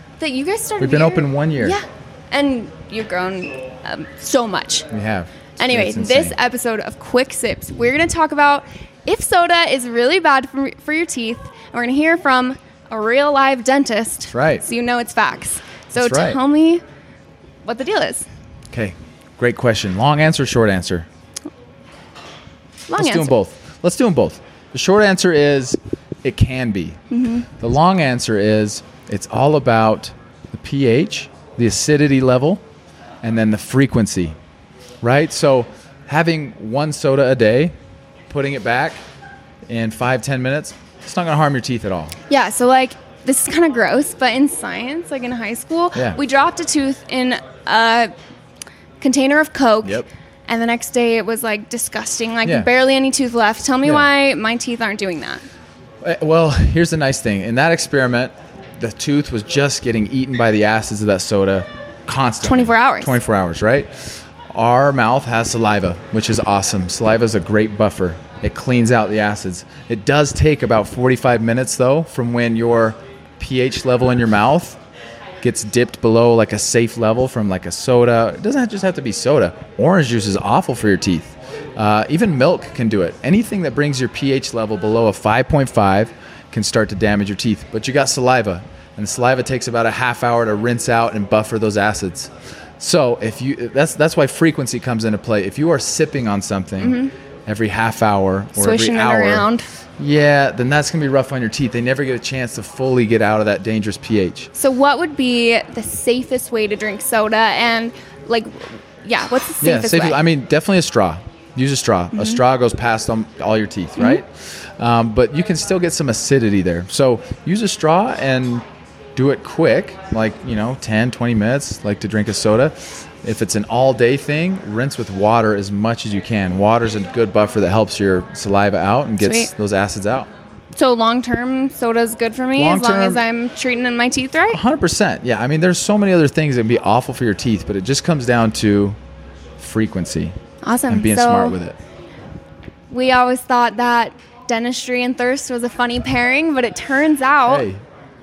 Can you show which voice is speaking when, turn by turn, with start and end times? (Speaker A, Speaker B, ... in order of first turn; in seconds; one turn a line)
Speaker A: 0.2-4.9
Speaker B: 0.8-1.8
Speaker B: 4.9-6.4
Speaker A: 5.6-16.8
Speaker B: 14.3-14.7
Speaker B: 15.9-16.4
Speaker A: 17.6-18.3
Speaker B: 18.7-21.1
Speaker A: 22.9-23.3
Speaker B: 22.9-32.6
Speaker A: 27.1-27.5
Speaker B: 33.2-34.3
Speaker B: 35.0-37.7
Speaker B: 38.3-39.0
Speaker B: 39.7-42.1
Speaker A: 42.3-48.1
Speaker A: 49.0-55.4
Speaker B: 49.8-50.1
Speaker B: 52.5-52.7
Speaker B: 56.0-74.8
Speaker A: 62.4-63.2
Speaker B: 75.4-104.5
Speaker A: 96.8-97.1
Speaker A: 98.6-99.7
Speaker A: 104.5-110.2
Speaker B: 109.6-118.6
Speaker A: 112.1-112.4
Speaker B: 119.2-130.3
Speaker A: 129.2-129.5
Speaker A: 130.8-134.6
Speaker B: 132.6-133.2
Speaker B: 134.5-139.0
Speaker B: 139.6-140.3
Speaker A: 140.6-141.6
Speaker B: 140.9-141.8
Speaker A: 142.9-147.7
Speaker B: 147.5-147.8